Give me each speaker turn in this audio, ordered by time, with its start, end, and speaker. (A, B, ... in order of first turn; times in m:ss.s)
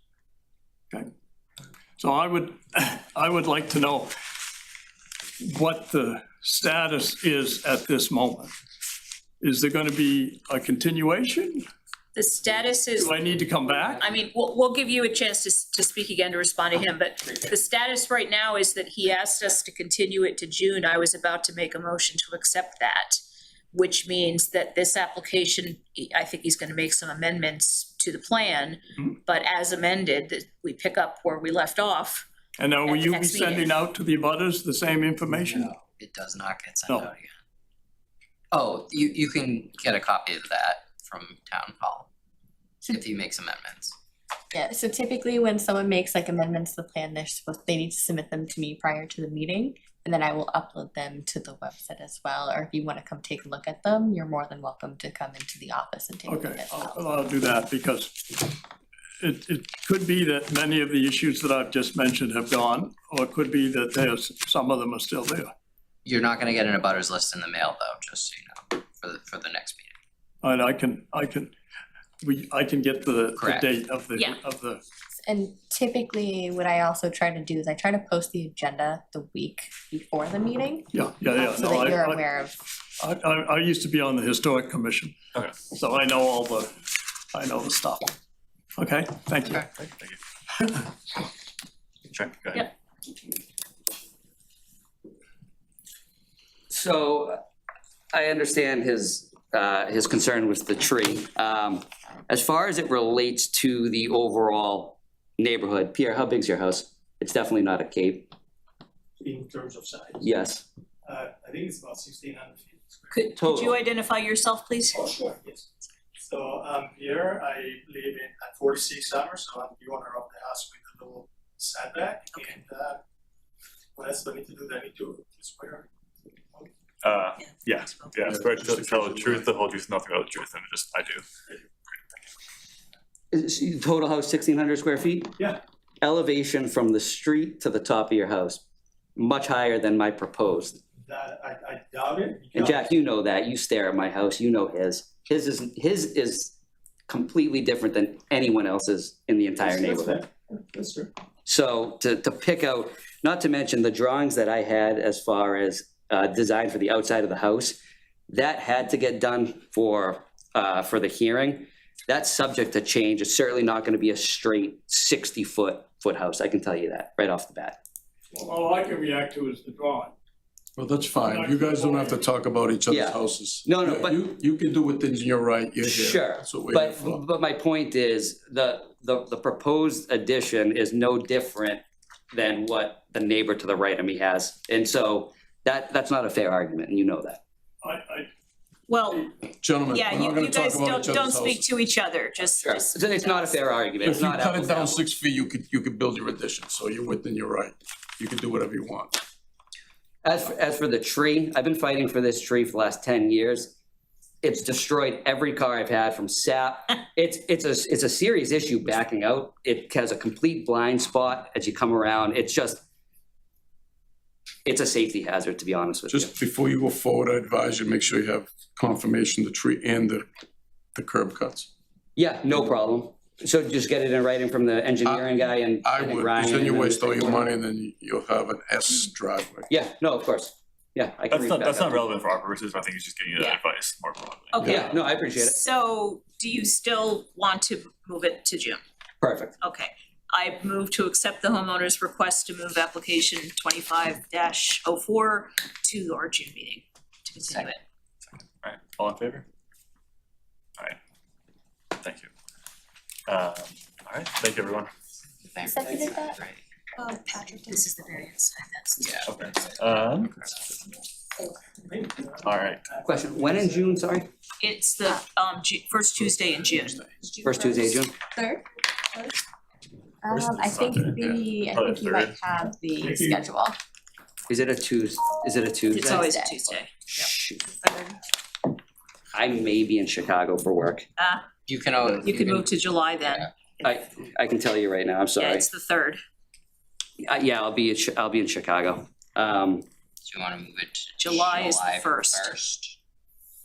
0:02.0-0:04.1 A
0:05.4-0:08.5 A
0:09.4-0:11.6 A
0:12.2-0:13.2 B
0:13.0-0:14.0 A
0:13.9-0:23.2 B
0:23.7-0:32.3 B
0:32.6-0:35.7 A
0:32.8-0:33.7 B
0:35.4-0:37.4 C
0:38.5-0:42.1 C
0:42.8-0:44.0 C
0:44.6-0:56.9 D
0:56.3-0:58.6 A
0:59.2-1:05.5 A
1:06.0-1:10.0 C
1:10.4-1:11.5 A
1:12.2-1:14.8 A
1:13.4-1:13.8 C
1:15.3-1:22.5 D
1:20.9-1:22.2 A
1:23.0-1:25.2 A
1:25.7-1:26.8 A
1:27.3-1:28.1 A
1:28.8-1:29.9 A
1:32.1-1:32.7 E
1:36.7-1:37.4 F
1:38.1-1:48.3 F
1:49.2-1:50.2 G
1:50.2-1:50.6 F
1:51.0-1:53.3 G
1:53.1-1:55.0 B
1:53.4-1:53.8 F
1:54.9-1:55.7 G
1:56.3-2:03.0 G
2:04.0-2:05.9 G
2:07.0-2:11.2 E
2:08.2-2:09.5 H
2:13.3-2:15.4 F
2:16.0-2:18.6 F
2:19.2-2:20.8 F
2:21.0-2:22.9 G
2:22.5-2:26.5 F
2:27.1-2:30.2 F
2:29.6-2:31.1 G
2:31.5-2:37.8 F
2:38.3-2:47.8 F
2:48.3-2:50.1 A
2:50.8-2:57.2 H
2:51.2-2:52.2 A
2:52.9-2:54.3 F
2:55.8-3:01.8 F
3:02.3-3:07.4 F
3:07.8-3:08.3 A
3:08.9-3:09.3 B
3:09.6-3:11.7 H
3:09.9-3:13.5 B
3:12.6-3:15.0 F
3:14.0-3:19.2 H
3:20.2-3:23.7 F
3:24.4-3:32.8 F
3:34.7-3:36.3 F
3:36.1-3:40.2 H
3:41.0-3:41.7 H
3:42.2-3:47.4 F
3:45.0-3:49.7 H
3:49.7-3:52.1 F
3:51.3-3:55.0 E
3:54.5-3:58.8 B
3:54.6-3:55.6 F
3:59.2-3:59.5 F
3:59.6-4:07.8 B
4:07.5-4:07.7 C
4:08.6-4:09.5 E
4:12.0-4:12.3 E
4:13.3-4:14.9 E
4:15.5-4:16.6 C
4:15.7-4:16.3 D
4:17.0-4:19.2 B
4:19.0-4:20.9 C
4:19.2-4:20.4 E
4:21.9-4:24.0 G
4:22.4-4:22.8 E
4:23.0-4:24.3 F
4:24.6-4:28.0 B
4:27.4-4:28.1 F
4:28.4-4:28.6 D
4:30.3-4:33.8 D
4:30.3-4:32.4 E
4:33.0-4:33.4 G
4:34.5-4:36.3 F
4:35.9-4:37.3 B
4:37.1-4:37.6 F
4:37.8-4:38.1 D
4:39.3-4:41.0 F
4:41.2-4:41.4 B
4:41.7-4:42.7 C
4:42.0-4:42.4 E
4:42.2-4:43.9 B
4:43.2-4:43.5 C
4:43.8-4:45.7 F
4:45.4-4:46.2 B
4:47.2-4:49.8 F
4:50.2-4:53.0 C
4:51.2-4:52.6 B